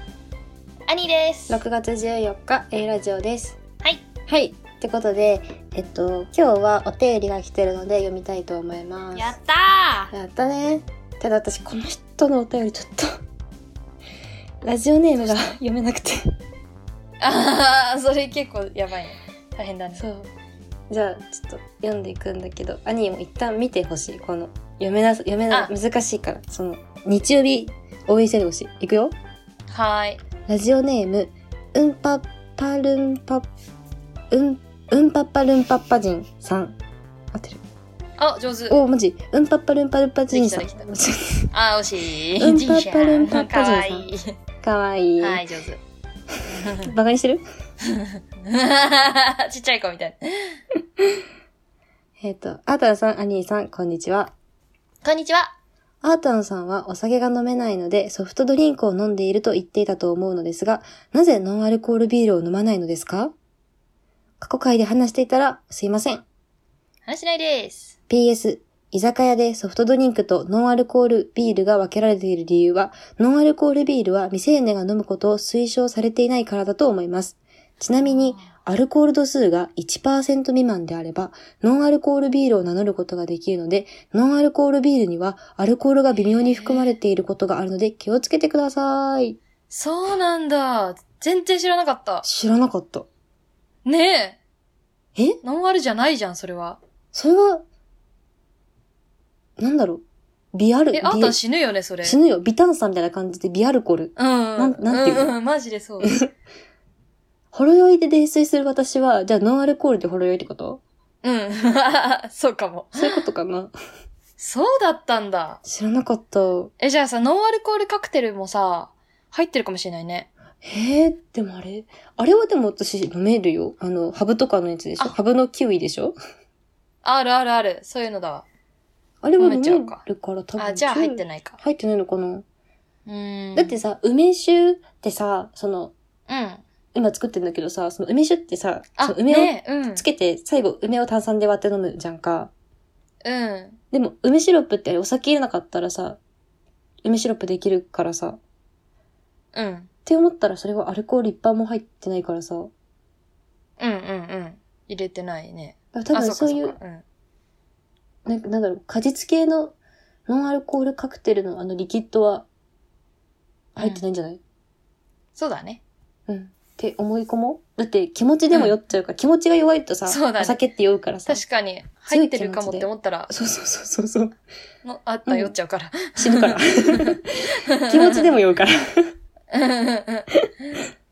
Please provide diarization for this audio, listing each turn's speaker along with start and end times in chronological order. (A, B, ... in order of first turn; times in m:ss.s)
0:00.9-0:01.6 A
0:01.5-0:03.6 B
0:04.3-0:09.4 B
0:09.2-0:10.1 A
0:10.1-0:13.1 B
0:14.6-0:16.3 B
0:15.2-0:15.6 A
0:17.2-0:20.0 A
0:20.0-0:20.3 B
0:20.9-0:29.1 B
0:29.7-0:30.2 A
0:30.5-0:33.5 B
0:34.3-0:36.8 B
0:37.3-0:37.6 B
0:38.2-0:38.8 A
0:38.7-0:41.5 B
0:40.3-0:40.9 A
0:41.5-0:44.3 A
0:42.4-0:44.1 B
0:44.6-0:45.4 B
0:45.2-0:45.8 A
0:46.5-0:46.9 A
0:46.7-0:47.4 B
0:48.0-0:50.6 A
0:52.2-0:54.3 B
0:55.0-0:55.5 A
0:56.0-1:03.3 B
1:04.4-1:06.2 B
1:07.1-1:08.0 A
1:08.1-1:29.4 B
1:18.0-1:18.5 A
1:26.5-1:27.0 A
1:29.7-1:32.2 A
1:32.2-1:33.1 B
1:33.8-1:34.4 A
1:35.4-1:36.8 A
1:37.1-1:37.6 B
1:39.6-1:40.0 B
1:40.5-1:41.4 B
1:40.9-1:42.2 A
1:42.0-1:45.4 B
1:44.2-1:46.2 A
1:46.0-1:46.3 B
1:47.5-1:50.8 B
1:51.2-1:53.2 A
1:53.0-1:53.7 B
1:54.4-1:55.6 A
1:55.6-1:56.7 B
1:56.8-2:00.3 A
2:00.6-2:06.1 B
2:07.0-2:08.5 A
2:09.2-2:12.4 B
2:09.4-2:10.0 A
2:10.6-2:11.6 A
2:13.1-2:13.8 A
2:13.6-2:15.9 B
2:16.3-2:16.6 A
2:16.9-2:22.5 B
2:19.0-2:20.1 A
2:23.2-2:23.8 A
2:23.9-2:26.2 B
2:27.0-2:28.4 B
2:29.5-2:29.9 A
2:30.1-2:32.7 B
2:33.8-2:37.0 A
2:35.9-2:36.8 B
2:38.3-2:39.8 B
2:40.3-2:42.5 B
2:43.8-2:44.4 B
2:45.4-2:45.8 A
2:46.3-2:51.4 B
2:48.5-2:48.8 A
2:50.1-2:50.6 A
2:51.3-2:53.3 A
2:52.1-2:54.4 B
2:54.8-2:57.2 A
2:55.3-2:55.6 B
2:56.2-2:58.7 B
2:57.7-2:58.3 A
2:59.5-3:00.8 A